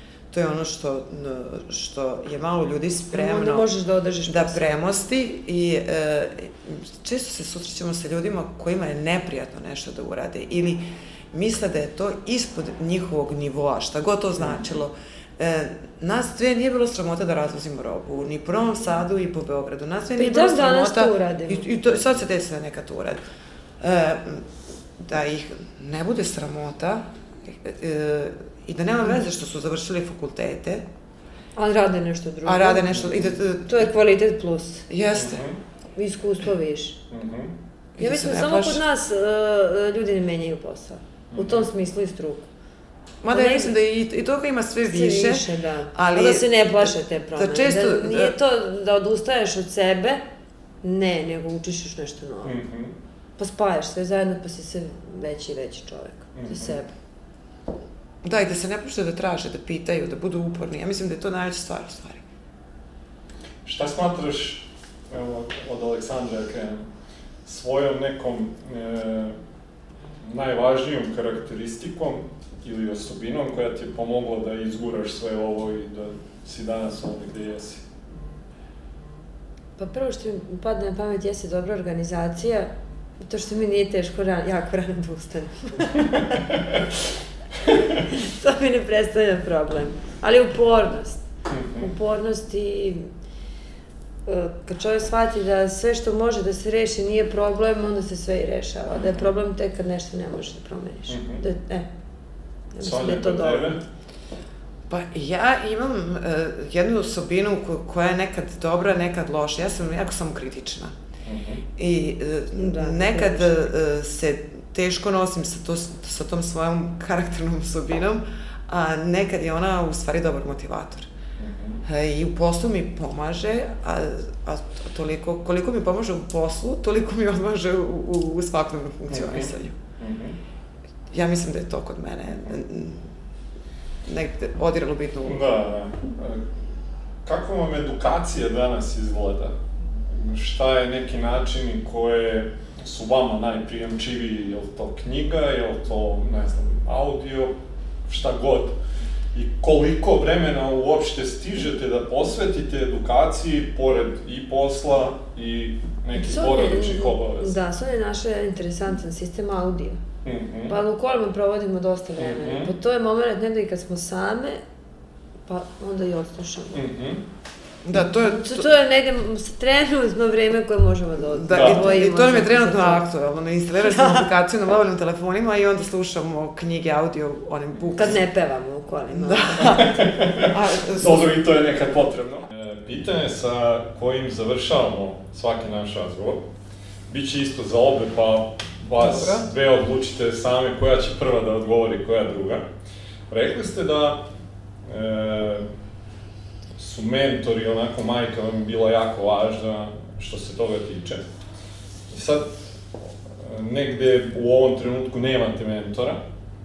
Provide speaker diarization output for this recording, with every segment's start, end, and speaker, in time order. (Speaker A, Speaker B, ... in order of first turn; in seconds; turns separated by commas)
Speaker A: 0.3-3.6, Speaker B: 3.1-4.7, Speaker A: 4.3-23.2, Speaker B: 20.2-21.6, Speaker A: 23.8-30.8, Speaker B: 31.6-32.9, Speaker A: 32.4-33.9, Speaker C: 32.9-33.4, Speaker B: 33.6-34.9, Speaker A: 34.9-35.4, Speaker C: 35.1-35.6, Speaker B: 36.0-37.0, Speaker C: 37.1-37.5, Speaker A: 38.0-38.8, Speaker B: 38.0-42.5, Speaker C: 41.3-41.7, Speaker A: 43.2-48.3, Speaker B: 43.3-43.7, Speaker B: 44.8-50.2, Speaker B: 50.8-52.5, Speaker C: 52.4-52.9, Speaker B: 53.4-56.9, Speaker C: 56.3-56.8, Speaker A: 58.2-62.2, Speaker C: 63.6-66.8, Speaker C: 67.4-69.3, Speaker C: 70.2-77.8, Speaker B: 79.8-86.4, Speaker C: 86.4-86.8, Speaker C: 87.7-88.0, Speaker B: 88.1-91.2, Speaker C: 91.5-91.9, Speaker B: 91.8-93.1, Speaker B: 94.2-101.9, Speaker C: 101.1-101.4, Speaker B: 102.7-103.8, Speaker C: 102.8-103.8, Speaker A: 104.9-110.9, Speaker C: 111.2-111.6, Speaker A: 111.8-121.1, Speaker B: 112.5-113.6, Speaker C: 121.4-121.8, Speaker A: 121.8-129.8, Speaker C: 129.1-130.4, Speaker A: 131.1-133.1, Speaker A: 134.0-135.4, Speaker C: 135.2-136.4, Speaker C: 137.2-139.5, Speaker C: 140.1-147.5, Speaker C: 148.1-148.8, Speaker C: 149.3-157.6, Speaker B: 156.2-160.0, Speaker C: 160.2-160.7, Speaker B: 160.7-164.6, Speaker C: 162.2-162.7, Speaker B: 165.5-166.8, Speaker C: 166.7-167.2, Speaker A: 167.8-168.7, Speaker B: 168.0-173.0, Speaker A: 171.3-178.2, Speaker C: 171.5-171.9, Speaker B: 173.9-174.2, Speaker B: 177.9-180.0, Speaker A: 179.1-181.3, Speaker C: 179.6-186.4, Speaker C: 187.1-192.6, Speaker A: 189.0-189.4, Speaker C: 193.3-194.2, Speaker C: 194.8-195.7, Speaker C: 196.8-201.2, Speaker C: 202.1-202.5, Speaker C: 203.4-206.2